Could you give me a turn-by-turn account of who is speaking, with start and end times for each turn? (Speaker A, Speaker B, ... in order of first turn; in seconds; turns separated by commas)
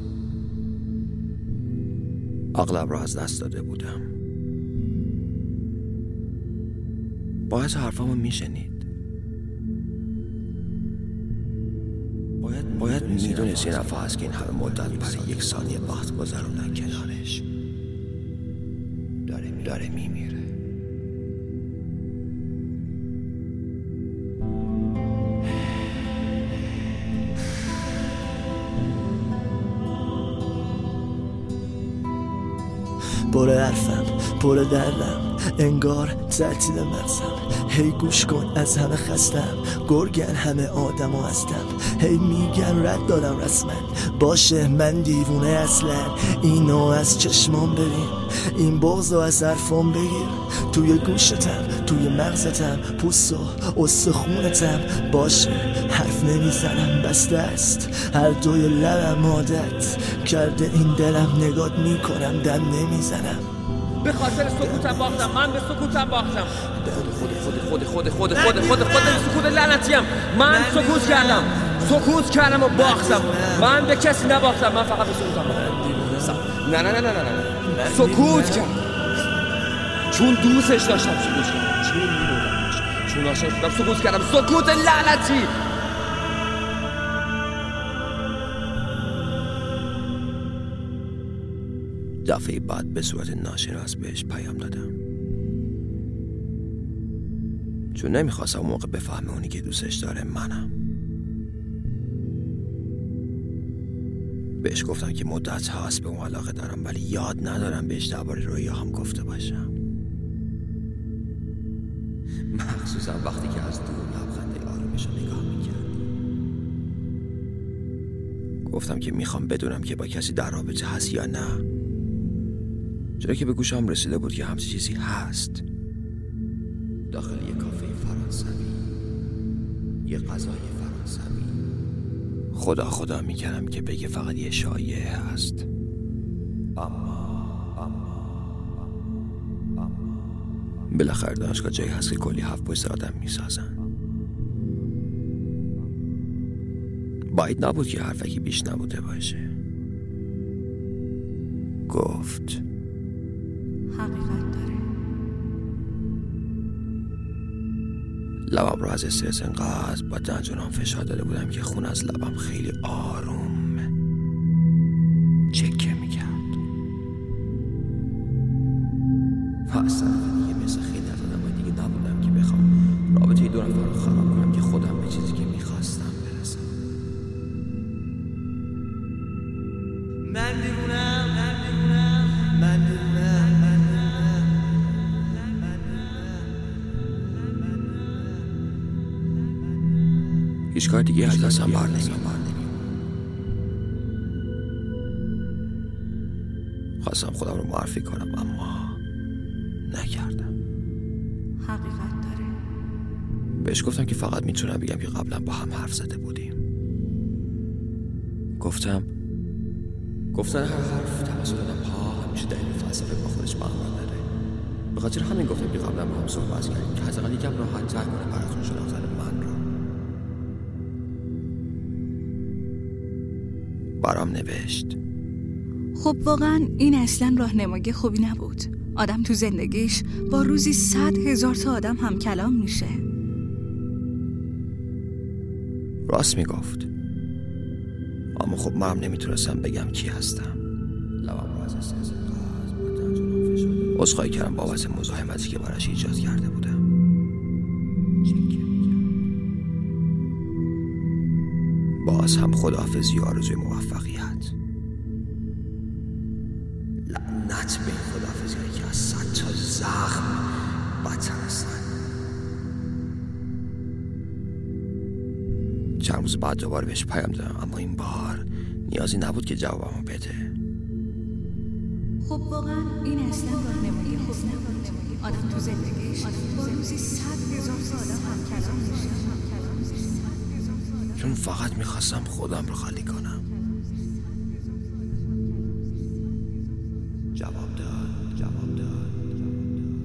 Speaker A: 2.5-4.0, Speaker A: 7.5-8.9, Speaker A: 12.4-17.4, Speaker A: 19.3-20.4, Speaker B: 33.3-63.5, Speaker C: 64.0-66.6, Speaker B: 64.6-65.3, Speaker B: 66.6-67.2, Speaker A: 67.4-70.5, Speaker C: 67.9-78.7, Speaker A: 71.1-71.5, Speaker A: 72.1-75.5, Speaker A: 76.5-78.8, Speaker A: 80.1-85.5, Speaker C: 80.1-85.5, Speaker A: 92.2-94.9, Speaker A: 97.9-100.7, Speaker A: 104.6-109.7, Speaker A: 112.5-116.1, Speaker A: 118.7-121.7, Speaker A: 123.2-125.6, Speaker A: 127.1-128.8, Speaker A: 130.1-131.6, Speaker A: 132.5-135.7, Speaker A: 136.8-137.7, Speaker A: 140.9-143.8, Speaker A: 147.3-149.5, Speaker A: 151.9-152.6, Speaker D: 153.9-154.8, Speaker A: 158.5-163.9, Speaker A: 165.5-166.6, Speaker A: 169.7-176.7, Speaker C: 181.1-181.6, Speaker A: 190.7-192.7, Speaker A: 197.0-199.0, Speaker A: 199.9-200.5, Speaker D: 201.6-202.6, Speaker A: 203.6-206.6, Speaker A: 208.6-209.1, Speaker A: 210.3-214.2, Speaker A: 214.9-219.6, Speaker A: 224.0-225.0, Speaker D: 226.0-233.0, Speaker A: 236.1-236.9, Speaker A: 238.4-240.6, Speaker A: 241.2-246.8, Speaker A: 248.3-248.8, Speaker A: 252.0-254.5, Speaker A: 257.1-261.9, Speaker A: 266.0-270.5, Speaker D: 272.2-280.4, Speaker A: 281.1-283.4, Speaker A: 287.4-289.3